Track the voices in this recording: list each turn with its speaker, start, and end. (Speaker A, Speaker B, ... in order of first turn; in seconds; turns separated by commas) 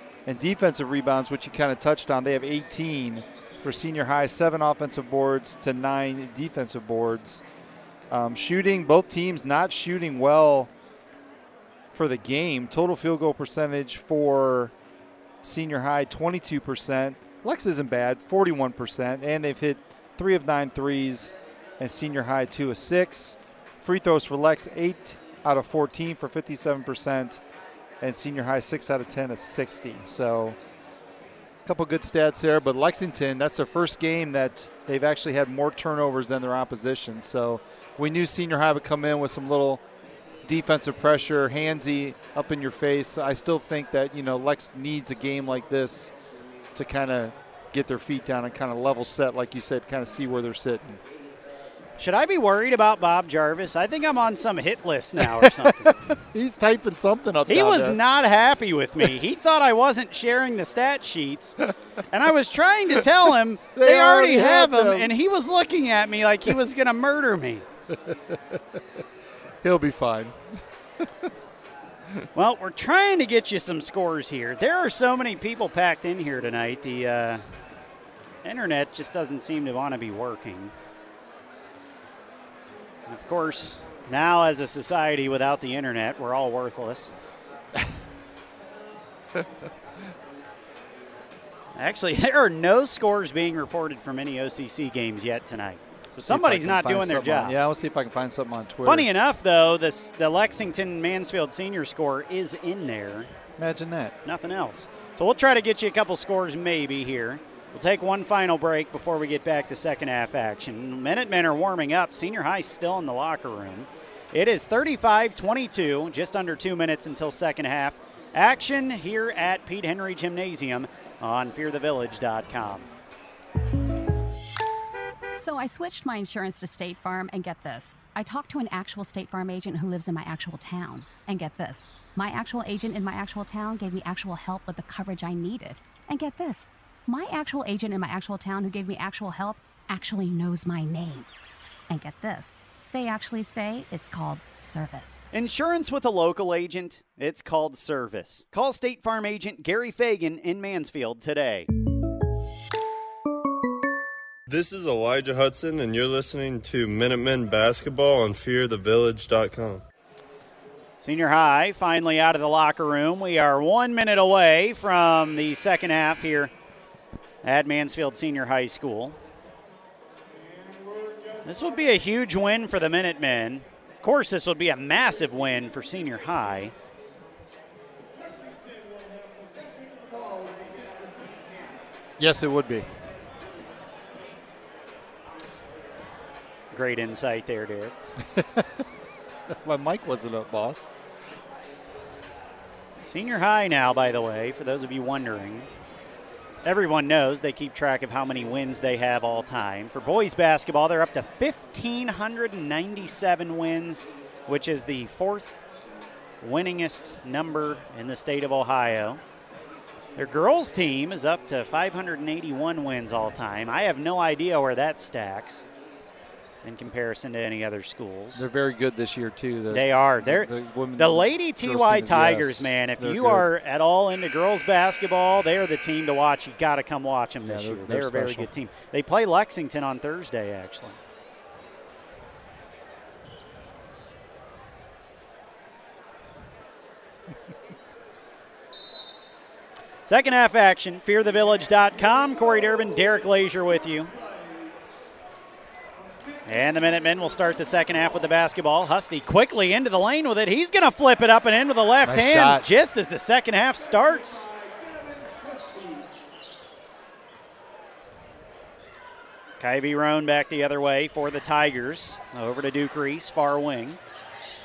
Speaker A: 0.3-7.5, Speaker A: 8.1-10.7, Speaker A: 11.9-14.7, Speaker A: 15.4-27.4, Speaker A: 28.0-30.6, Speaker A: 31.6-39.8, Speaker A: 40.5-46.1, Speaker A: 46.7-51.0, Speaker B: 52.0-56.0, Speaker A: 55.2-58.0, Speaker B: 57.5-67.7, Speaker A: 63.8-65.1, Speaker A: 68.1-68.6, Speaker A: 69.6-70.4, Speaker A: 71.0-71.3, Speaker B: 72.3-77.4, Speaker B: 78.4-80.7, Speaker B: 83.1-87.1, Speaker B: 91.8-97.6, Speaker A: 96.3-99.1, Speaker B: 98.8-103.3, Speaker A: 103.6-104.2, Speaker B: 104.2-122.9, Speaker C: 125.3-141.3, Speaker C: 141.9-145.3, Speaker B: 145.3-151.7, Speaker D: 154.5-159.8, Speaker B: 161.0-166.5, Speaker B: 167.4-169.2, Speaker B: 171.4-176.7, Speaker A: 182.2-182.9, Speaker B: 186.7-187.9, Speaker A: 188.2-188.8, Speaker A: 189.5-190.9, Speaker B: 193.0-195.7, Speaker B: 196.7-205.6, Speaker B: 206.4-209.2, Speaker B: 210.2-215.6, Speaker B: 216.6-218.5, Speaker A: 218.3-223.5, Speaker B: 219.7-231.0, Speaker A: 227.4-228.5, Speaker B: 240.1-244.2, Speaker B: 246.5-254.5, Speaker A: 252.0-252.7, Speaker B: 259.6-264.0